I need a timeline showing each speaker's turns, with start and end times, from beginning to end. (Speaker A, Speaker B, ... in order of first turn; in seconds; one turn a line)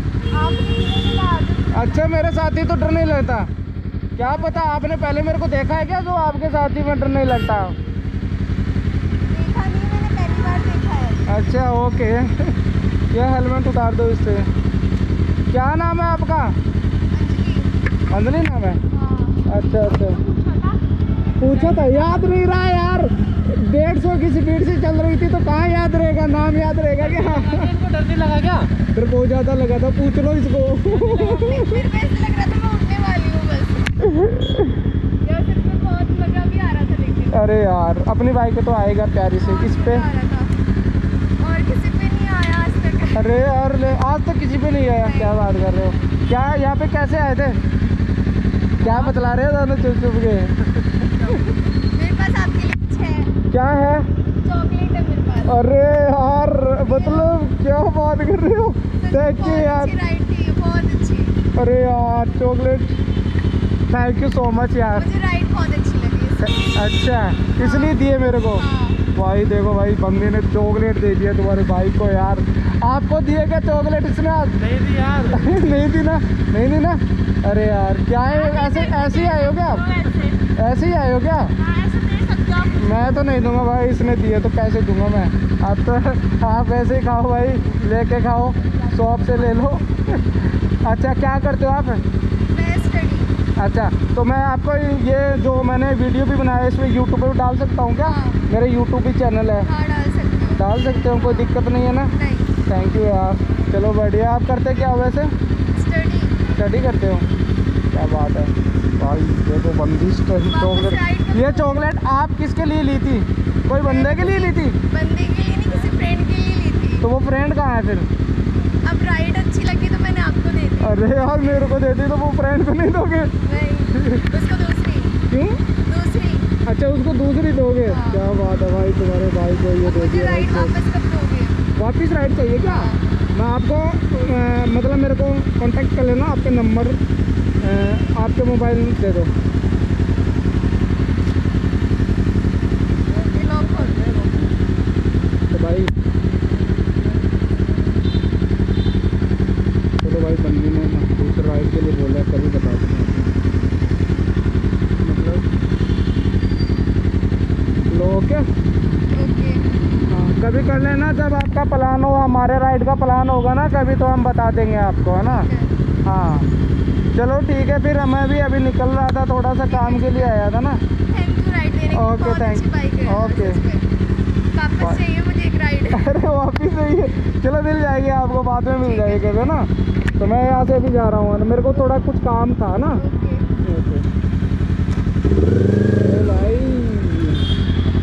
Speaker A: 0.3-2.2
Speaker B: 1.7-3.5
Speaker B: 4.2-7.8
Speaker A: 4.2-4.7
Speaker A: 9.3-11.2
Speaker B: 11.3-12.5
Speaker B: 13.1-14.5
Speaker B: 15.5-16.5
Speaker A: 17.1-17.7
Speaker B: 18.1-18.8
Speaker A: 18.9-20.8
Speaker B: 19.5-20.2
Speaker B: 21.4-27.7
Speaker C: 21.6-22.0
Speaker C: 27.0-28.7
Speaker B: 28.9-31.9
Speaker C: 30.9-31.5
Speaker A: 31.2-34.1
Speaker B: 34.1-34.8
Speaker A: 35.2-37.4
Speaker B: 37.3-40.0
Speaker A: 39.4-40.5
Speaker A: 41.4-43.2
Speaker B: 43.1-47.6
Speaker A: 45.0-45.4
Speaker B: 48.8-51.4
Speaker C: 48.9-49.1
Speaker A: 51.9-53.3
Speaker B: 53.5-54.0
Speaker A: 54.4-55.6
Speaker B: 55.5-59.9
Speaker A: 56.8-57.3
Speaker A: 59.0-61.4
Speaker B: 61.5-63.0
Speaker B: 63.9-65.1
Speaker A: 64.9-66.9
Speaker B: 66.5-74.5
Speaker A: 67.6-69.0
Speaker C: 74.6-75.5
Speaker B: 75.3-79.8
Speaker A: 78.3-80.4
Speaker B: 80.5-81.5
Speaker A: 81.5-83.0
Speaker B: 82.8-90.2
Speaker B: 90.8-92.0
Speaker A: 92.5-93.3
Speaker B: 93.6-99.7
Speaker A: 98.0-98.4
Speaker A: 99.6-101.5
Speaker B: 100.5-102.1
Speaker A: 102.1-102.5
Speaker B: 102.7-105.3
Speaker A: 105.7-106.4
Speaker B: 106.5-107.3
Speaker B: 107.9-114.8
Speaker A: 110.5-111.8
Speaker A: 113.8-117.1
Speaker B: 117.0-118.1
Speaker A: 118.8-121.0
Speaker B: 120.8-123.3
Speaker A: 123.4-125.2
Speaker B: 123.9-124.2
Speaker B: 125.3-125.6
Speaker A: 125.8-126.5
Speaker B: 126.7-130.7
Speaker A: 127.8-128.2
Speaker A: 129.8-131.6
Speaker B: 131.8-137.0
Speaker A: 132.6-133.0
Speaker B: 137.6-139.3
Speaker A: 143.2-144.2
Speaker B: 145.5-145.9
Speaker B: 150.0-153.3
Speaker B: 155.0-155.4
Speaker B: 157.9-158.4
Speaker A: 159.1-159.6
Speaker B: 160.1-165.5
Speaker A: 165.2-165.7
Speaker B: 166.0-166.5
Speaker B: 167.1-170.8
Speaker A: 169.7-170.3
Speaker A: 171.1-173.8
Speaker B: 171.9-173.6
Speaker A: 174.5-176.1
Speaker B: 175.9-183.0
Speaker A: 178.8-179.5
Speaker A: 182.9-183.5
Speaker B: 183.6-184.1
Speaker B: 186.0-187.5